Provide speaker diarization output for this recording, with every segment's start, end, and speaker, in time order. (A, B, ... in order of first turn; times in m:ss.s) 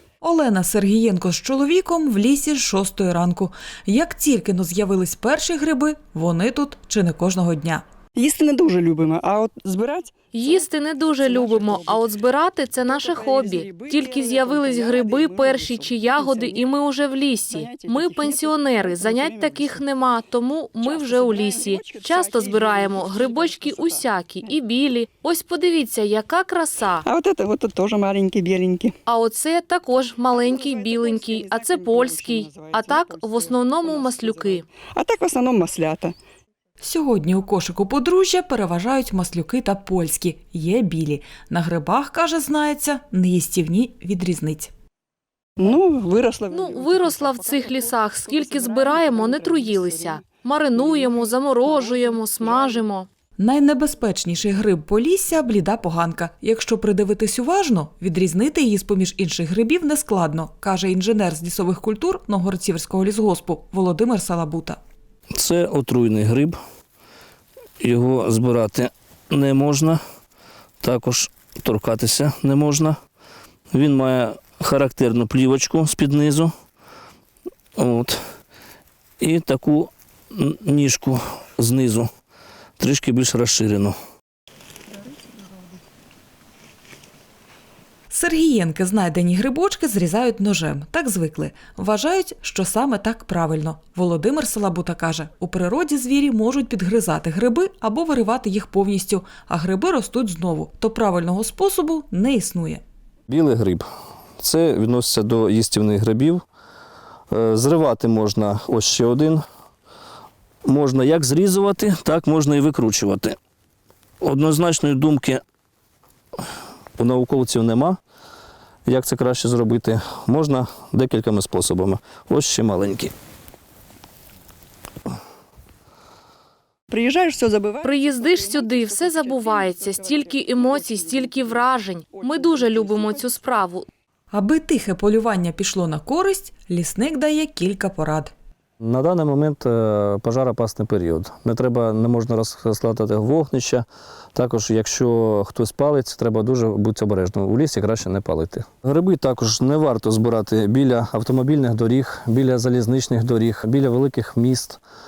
0:00.2-0:07.8 A
0:08.2-0:12.1 B
0:10.3-0:27.0 C
0:12.9-0:16.7 B
0:17.5-0:19.8 B
0:20.8-0:24.6 B
0:27.0-0:29.0 B
0:29.1-0:34.6 C
0:30.3-0:36.2 B
0:36.8-0:44.7 A
0:45.6-0:52.8 B
0:46.5-0:53.1 C
0:53.4-1:04.8 A
1:05.3-1:06.6 D
1:07.8-1:10.0 D
1:10.8-1:13.0 D
1:13.7-1:16.5 D
1:17.8-1:18.2 D
1:19.2-1:22.1 D
1:22.8-1:24.0 D
1:28.1-1:42.8 A
1:43.3-1:43.8 D
1:44.4-1:46.4 D
1:47.3-1:49.4 D
1:50.6-1:53.4 D
1:54.2-1:55.4 D
1:57.0-1:58.0 D
1:58.9-2:03.1 D
2:06.9-2:13.5 B
2:07.8-2:13.9 C
2:14.3-2:18.3 A
2:18.8-2:34.8 D